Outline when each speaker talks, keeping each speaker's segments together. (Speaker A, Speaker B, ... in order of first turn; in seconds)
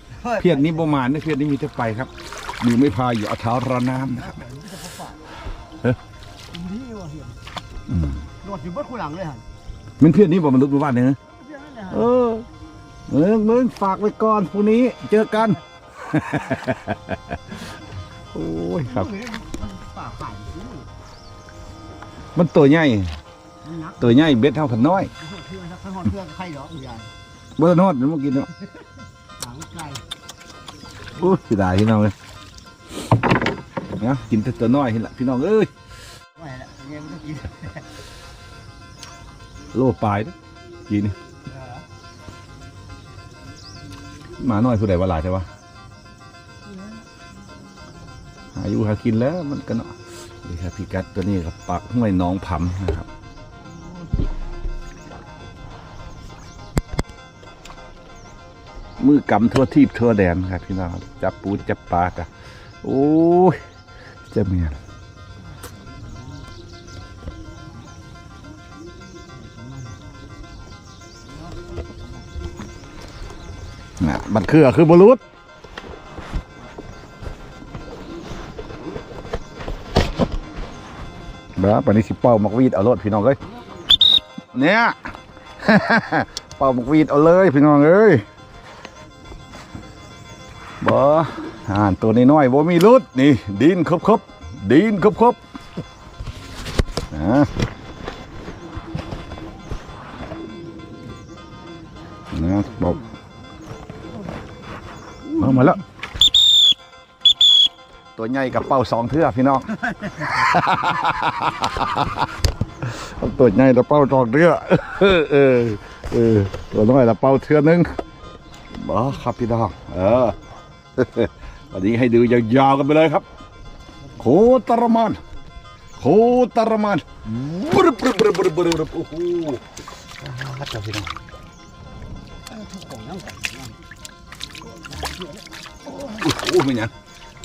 Speaker A: 0.2-0.9, 4.0-5.2, 6.5-7.4, 8.4-9.5, 11.3-12.2, 18.8-20.9, 23.6-27.1, 29.4-30.0, 36.4-37.9, 41.5-41.9, 46.7-47.0, 53.7-54.1, 65.5-66.5, 69.3-70.0, 71.2-72.3, 102.6-103.2, 105.3-105.8, 109.8-110.8, 132.5-133.8, 134.6-136.0
Speaker B: 0.4-4.4, 7.9-8.2, 10.0-11.2, 11.9-12.5, 13.1-17.2, 18.3-19.1, 22.4-23.2, 24.0-25.1, 27.6-28.5, 31.1-32.1, 34.0-35.7, 39.7-40.4, 40.9-41.2, 44.4-45.5, 48.5-53.1, 59.0-62.3, 62.8-63.6, 64.3-64.8, 74.0-75.2, 81.6-83.4, 84.5-88.2, 90.8-95.4, 97.1-97.5, 102.3-103.0, 105.4-105.8, 108.2-109.7, 110.3-112.3, 112.8-117.9, 118.7-120.4, 121.0-123.3, 124.2-125.2, 126.0-129.6, 130.2-131.1, 135.9-136.9